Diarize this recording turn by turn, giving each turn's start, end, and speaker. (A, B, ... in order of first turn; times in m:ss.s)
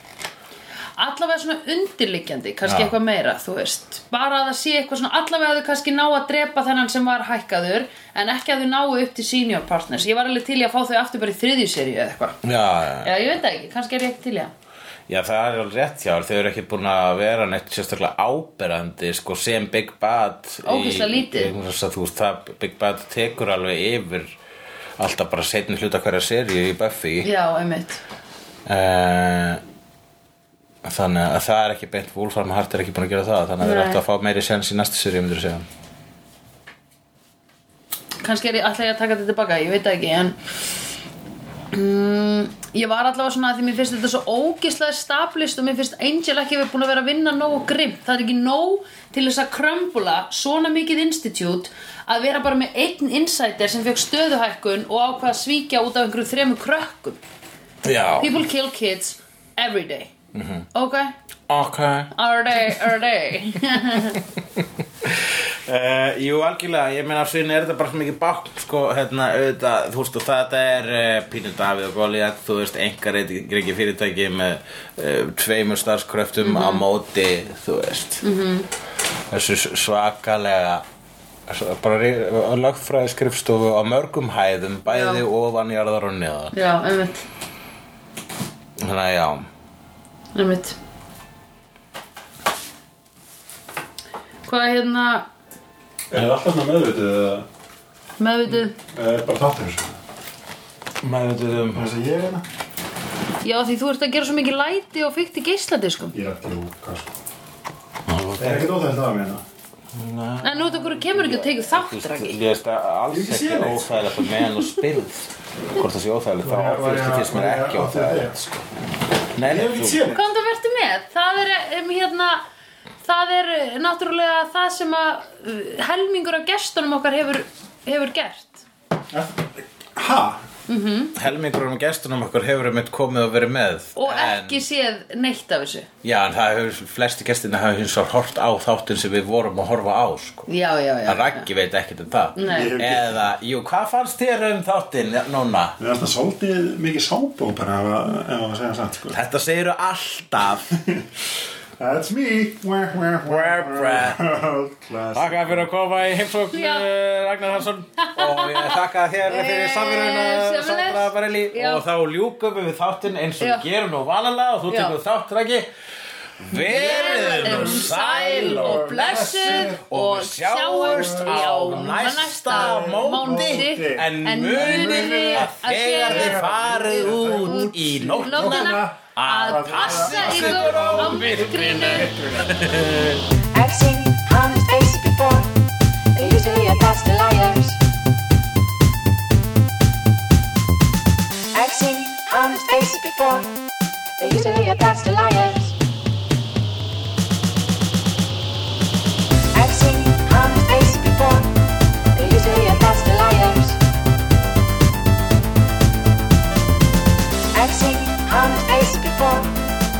0:01.0-0:12.4 A
0:02.6-0:02.9 B
0:12.4-0:13.1 B
0:13.0-0:14.5 A
0:15.1-0:24.3 B
0:20.6-0:21.5 A
0:25.0-0:27.3 B
0:27.2-0:28.0 A
0:28.6-0:29.6 B
0:30.8-0:35.6 B
0:33.6-0:34.0 A
0:38.2-0:40.4 A
0:41.7-0:57.2 A
0:57.8-0:58.3 B
0:58.2-1:00.1 A
1:00.3-1:00.7 B
1:00.7-1:01.1 A
1:01.5-1:02.1 B
1:02.1-1:04.2 A
1:05.0-1:18.2 B
1:16.4-1:16.8 A
1:18.2-1:18.7 A
1:19.3-1:20.8 B
1:21.5-1:26.5 B
1:24.9-1:25.2 A
1:26.5-1:27.2 A
1:28.8-1:29.5 B
1:30.3-1:30.8 A
1:34.4-1:35.3 A
1:36.1-1:37.4 C
1:38.2-1:38.7 A
1:38.9-1:40.0 C
1:41.0-1:41.9 B
1:41.7-1:42.4 C
1:43.4-1:46.1 A
1:46.1-1:47.1 C
1:48.1-1:48.7 B
1:48.4-1:49.4 C
1:49.9-1:58.4 B
1:50.4-1:52.4 A
1:53.1-1:54.2 C
1:56.4-1:58.5 C
1:59.3-2:00.0 B
1:59.4-2:00.2 C
2:00.1-2:02.4 A
2:03.0-2:08.6 A
2:09.1-2:10.4 C
2:10.7-2:11.1 A
2:11.2-2:14.6 B
2:14.0-2:15.9 A
2:16.0-2:20.5 B
2:20.5-2:21.5 A
2:21.0-2:25.8 B
2:22.3-2:22.8 A
2:22.4-2:23.2 C
2:25.8-2:29.2 C
2:29.1-2:30.7 B
2:31.8-2:35.6 C
2:33.2-2:34.2 B
2:35.1-2:45.7 B
2:36.5-2:36.9 A
2:38.0-2:41.8 A
2:43.4-2:43.6 A
2:44.7-2:45.0 A
2:46.4-3:03.2 B
2:46.5-2:49.8 C
2:46.5-2:56.6 A
2:50.8-2:51.9 C
2:52.5-3:02.6 C
2:57.4-2:57.7 A
2:58.2-3:02.1 A
3:03.5-3:05.5 D
3:06.1-3:07.8 D
3:11.5-3:13.5 D
3:14.2-3:15.7 D
3:19.5-3:21.5 D
3:22.1-3:23.8 D
3:27.5-3:29.5 D